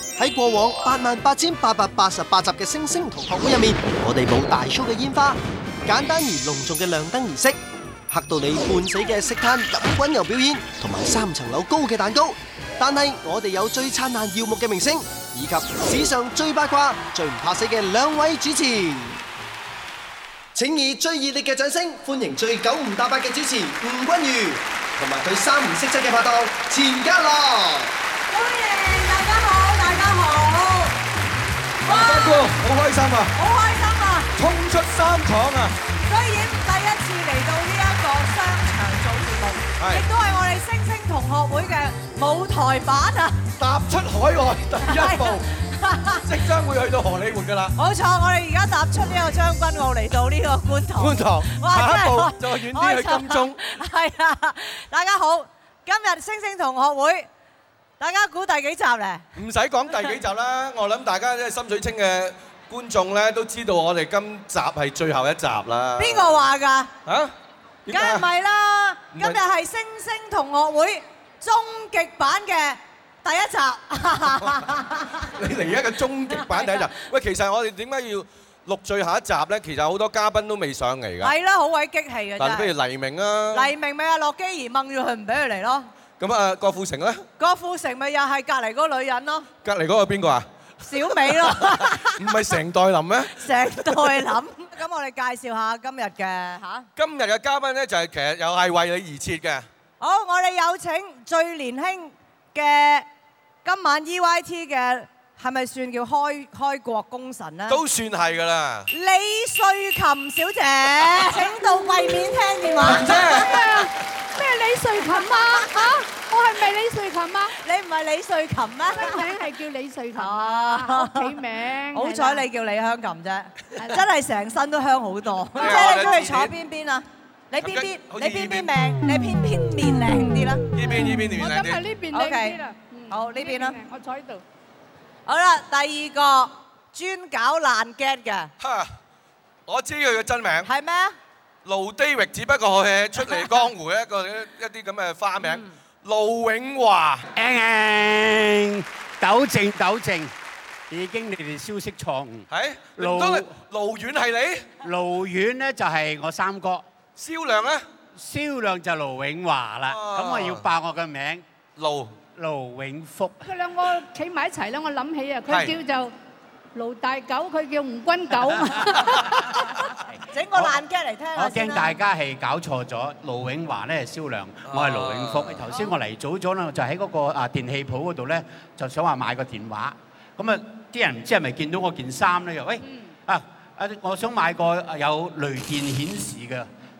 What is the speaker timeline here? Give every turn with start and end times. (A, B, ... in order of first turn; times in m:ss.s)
0:00.2-0:07.6 A
0:08.1-0:19.2 A
0:20.6-0:27.9 A
0:28.3-0:31.0 B
0:31.8-0:32.5 B
0:31.9-0:33.3 C
0:33.4-0:34.3 B
0:34.4-0:35.7 C
0:36.1-0:43.4 B
0:39.8-0:40.0 C
0:43.6-0:45.5 C
0:44.8-0:46.2 B
0:46.1-0:47.8 C
0:47.8-0:57.3 B
0:51.0-0:53.6 C
0:58.0-0:59.2 B
0:59.4-1:06.4 C
1:06.0-1:06.9 B
1:07.1-1:07.3 C
1:07.9-1:08.2 C
1:07.9-1:15.3 B
1:15.4-1:21.3 C
1:16.3-1:16.8 B
1:21.2-1:22.7 B
1:22.4-1:23.7 C
1:23.5-1:25.9 B
1:26.2-1:27.2 C
1:27.4-1:29.5 B
1:29.6-1:30.5 C
1:30.8-1:32.5 B
1:31.0-1:34.1 C
1:33.3-1:36.9 B
1:37.0-1:39.7 C
1:40.0-1:43.1 B
1:43.6-1:47.8 B
1:47.7-1:48.9 C
1:48.9-1:53.3 B
1:52.8-1:53.8 C
1:53.2-1:57.5 D
1:57.6-1:59.2 B
1:58.9-2:02.4 D
2:00.2-2:01.3 B
2:01.9-2:10.6 B
2:05.6-2:06.5 C
2:07.6-2:08.7 C
2:10.7-2:11.8 C
2:11.0-2:14.4 D
2:12.1-2:13.8 B
2:15.3-2:18.5 B
2:18.6-2:18.9 C
2:19.7-2:20.7 C
2:20.6-2:21.2 B
2:21.6-2:27.2 C
2:27.4-2:30.3 E
2:30.9-2:32.5 E
2:32.5-2:34.7 C
2:33.0-2:33.5 E
2:34.8-2:36.8 E
2:37.2-2:37.8 C
2:38.2-2:41.4 E
2:39.9-2:40.6 C
2:41.8-2:42.2 C
2:42.3-2:43.4 E
2:43.4-2:46.1 D
2:45.5-2:45.8 C
2:46.8-2:49.7 D
2:50.3-2:52.0 B
2:51.4-3:06.7 E
2:54.7-2:55.6 C